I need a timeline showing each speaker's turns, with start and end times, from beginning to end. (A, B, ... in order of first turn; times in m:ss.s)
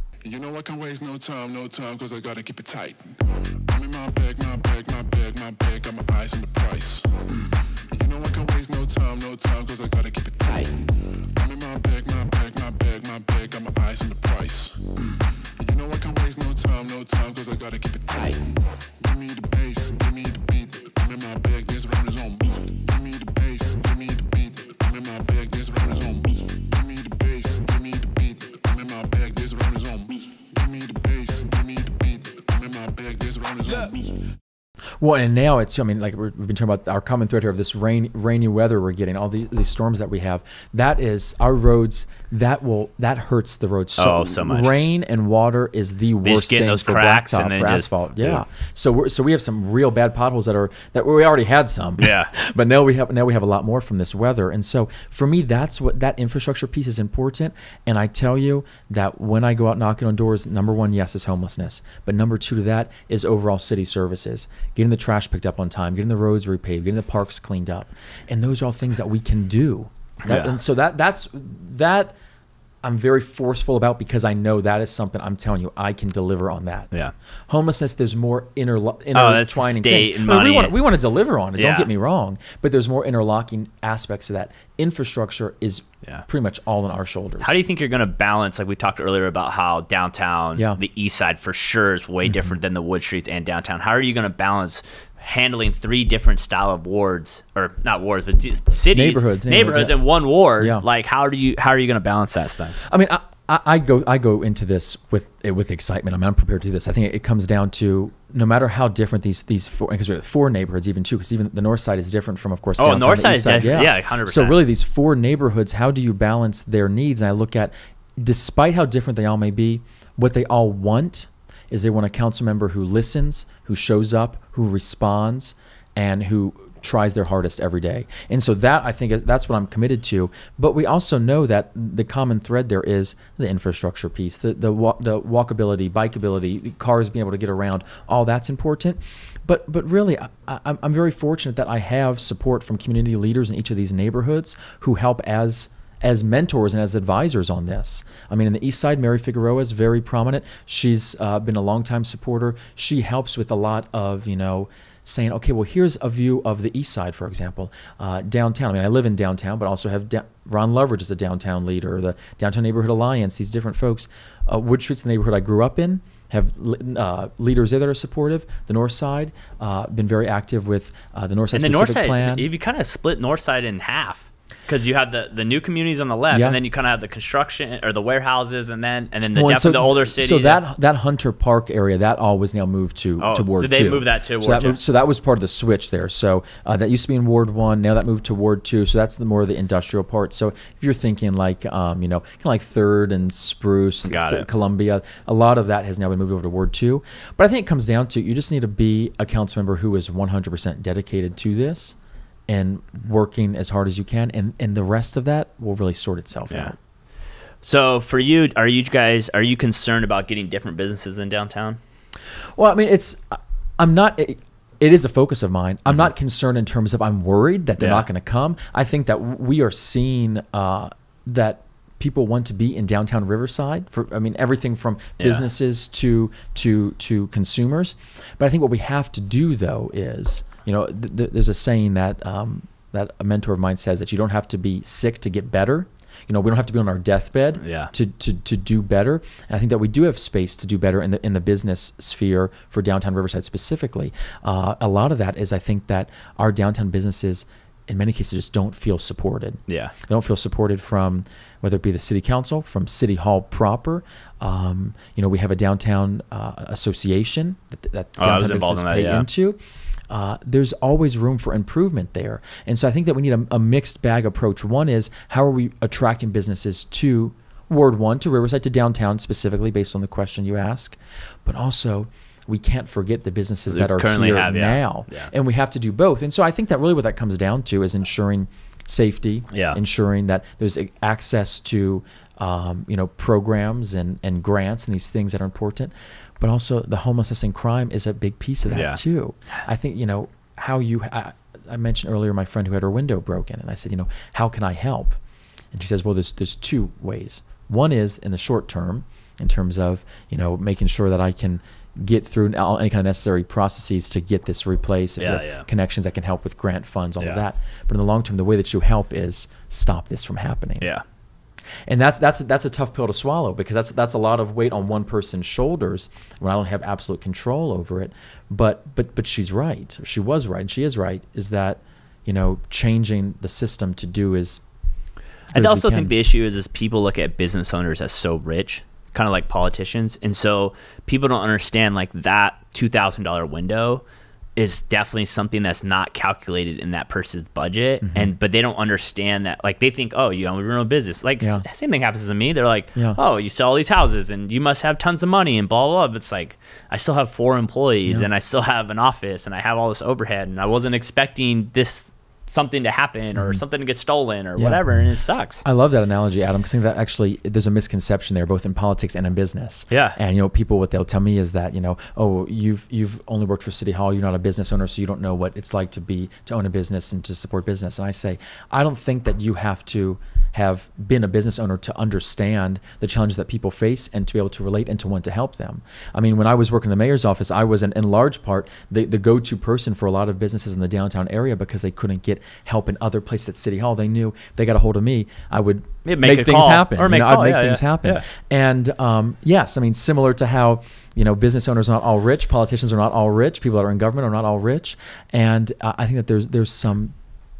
0:00.2-0:34.2 A
0:35.0-1:12.1 B
0:44.0-0:44.7 C
0:46.2-0:48.4 C
0:52.0-0:52.3 C
1:10.2-1:10.5 C
1:12.8-1:16.9 B
1:17.5-1:27.6 B
1:19.1-1:20.7 C
1:21.6-1:21.9 C
1:27.4-1:42.8 C
1:32.2-1:32.5 B
1:38.9-1:40.0 B
1:40.6-1:40.8 B
1:42.8-2:52.5 B
1:52.8-1:54.6 C
2:51.5-3:00.6 C
2:56.3-2:56.6 B
2:59.3-3:22.0 B
3:03.2-3:04.8 C
3:14.0-3:14.4 C
3:22.5-3:26.8 B
3:27.6-3:31.8 C
3:32.6-4:19.6 B
3:37.8-3:38.0 C
3:45.2-3:45.5 C
3:57.6-3:57.9 C
4:09.7-4:09.9 C
4:18.2-4:19.2 C
4:20.1-4:55.2 B
4:33.7-4:35.3 C
4:39.5-4:39.8 C
4:48.7-4:49.0 C
4:55.7-5:10.9 B
5:05.2-5:05.6 C
5:11.9-5:24.6 B
5:25.5-5:34.0 C
5:25.5-5:26.1 B
5:34.6-5:55.6 C
5:38.0-5:38.3 B
5:53.4-5:53.6 B
5:54.6-5:54.8 B
5:55.6-6:37.1 B
5:59.9-6:00.2 C
6:26.0-6:28.2 C